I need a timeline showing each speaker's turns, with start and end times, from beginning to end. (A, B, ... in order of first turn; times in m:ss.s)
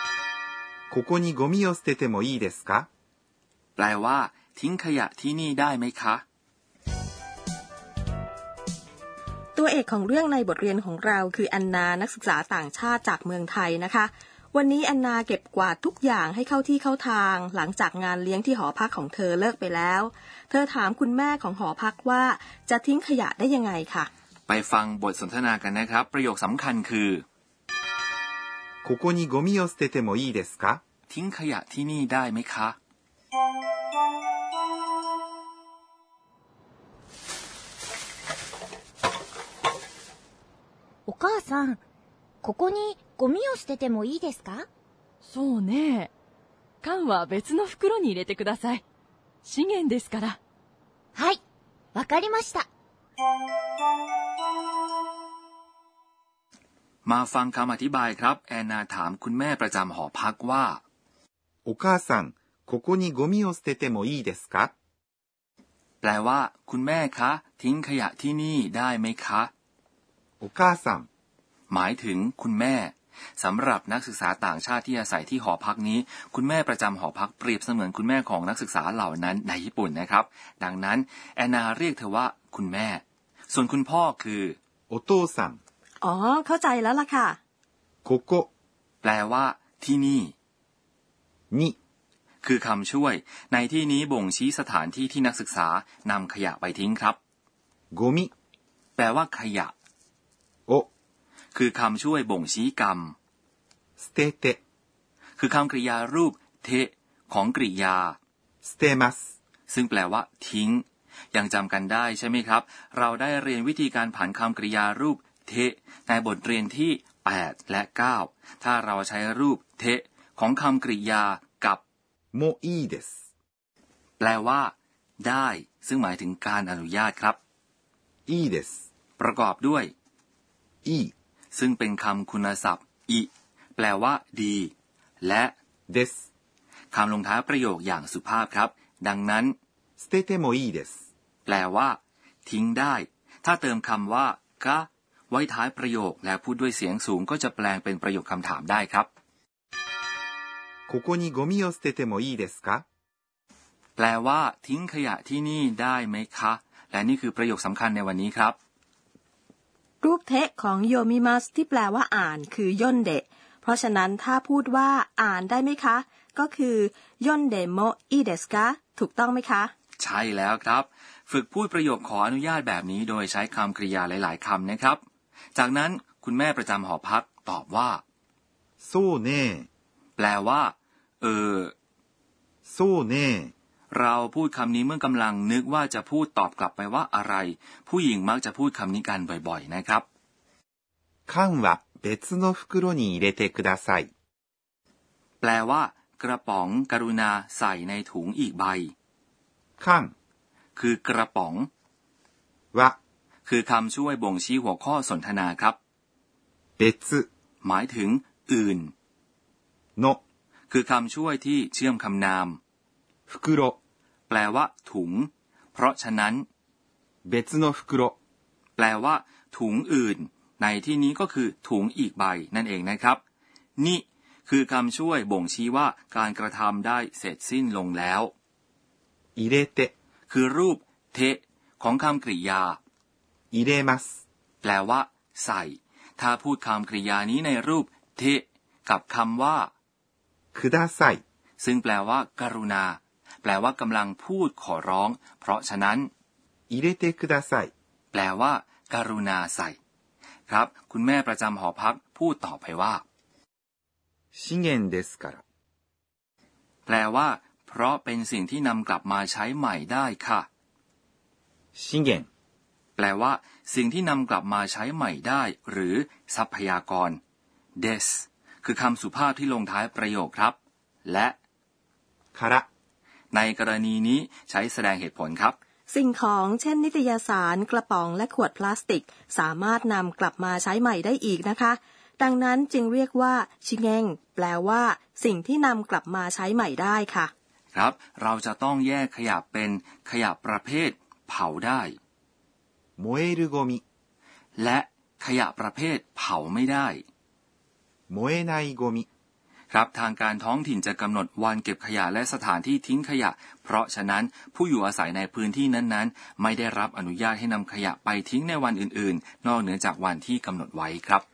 0:00.9-0:02.9 A
0:03.8-0:06.2 B
0:09.5-0:24.1 C
0:24.5-0:27.2 B
0:28.8-0:30.8 A
0:31.1-0:32.8 B
0:41.0-0:41.8 D
0:42.4-0:44.7 D
0:45.2-0:46.1 E
0:46.8-0:48.8 E
0:49.4-0:50.4 E
0:51.1-0:51.4 D
0:51.9-0:52.7 D
0:57.0-1:00.8 B
1:01.6-1:04.7 A
1:06.0-1:09.5 B
1:10.4-1:11.1 A
1:11.7-1:24.6 B
1:24.9-1:25.6 A
1:26.0-1:27.4 C
1:28.0-1:28.5 A
1:29.0-1:30.3 B
1:31.5-1:31.8 A
1:32.4-1:37.2 B
1:37.9-1:38.3 A
1:39.0-1:39.7 B
1:41.5-1:43.1 B
1:44.0-1:44.6 A
1:45.4-1:48.2 B
1:48.6-1:49.3 A
1:49.7-2:01.8 B
2:02.3-2:03.1 A
2:04.2-2:07.4 B
2:08.3-2:08.8 A
2:09.2-2:09.9 B
2:10.8-2:11.1 A
2:11.5-2:15.5 B
2:15.9-2:16.2 A
2:16.9-2:19.5 B
2:20.0-2:21.0 A
2:21.4-2:29.1 B
2:30.9-2:32.8 A
2:34.0-2:38.6 B
2:40.0-2:49.7 C
2:50.0-2:55.0 B
2:55.5-2:58.0 B
2:58.8-2:59.7 A
3:00.2-3:01.7 B
3:02.6-3:03.5 A
3:03.9-3:10.0 B
3:11.3-3:14.1 A
3:15.4-3:18.9 B
3:19.8-3:20.1 A
3:20.8-3:21.7 B
3:23.4-3:25.8 B
3:26.8-3:27.3 A
3:27.6-3:28.9 B
3:30.7-3:32.6 B
3:33.3-3:33.8 A
3:34.3-3:36.4 B
3:37.2-3:38.1 A
3:38.8-3:43.2 B
3:43.8-3:48.3 B
3:49.4-3:49.9 A
3:50.3-3:52.8 B
3:53.5-3:54.2 A
3:54.6-3:59.7 B
4:00.5-4:01.2 A
4:01.6-4:06.1 B
4:06.7-4:07.7 A
4:08.1-4:09.8 B
4:10.5-4:13.0 B
4:14.3-4:15.4 A
4:16.8-4:20.5 B
4:21.7-4:22.3 A
4:23.0-4:27.2 B
4:27.8-4:31.4 B
4:32.3-4:32.6 A
4:33.3-4:35.6 B
4:35.9-4:47.3 C
4:47.7-4:52.0 B
4:53.0-4:53.8 A
4:54.6-4:57.0 B
4:58.1-4:59.0 A
4:59.7-5:11.2 B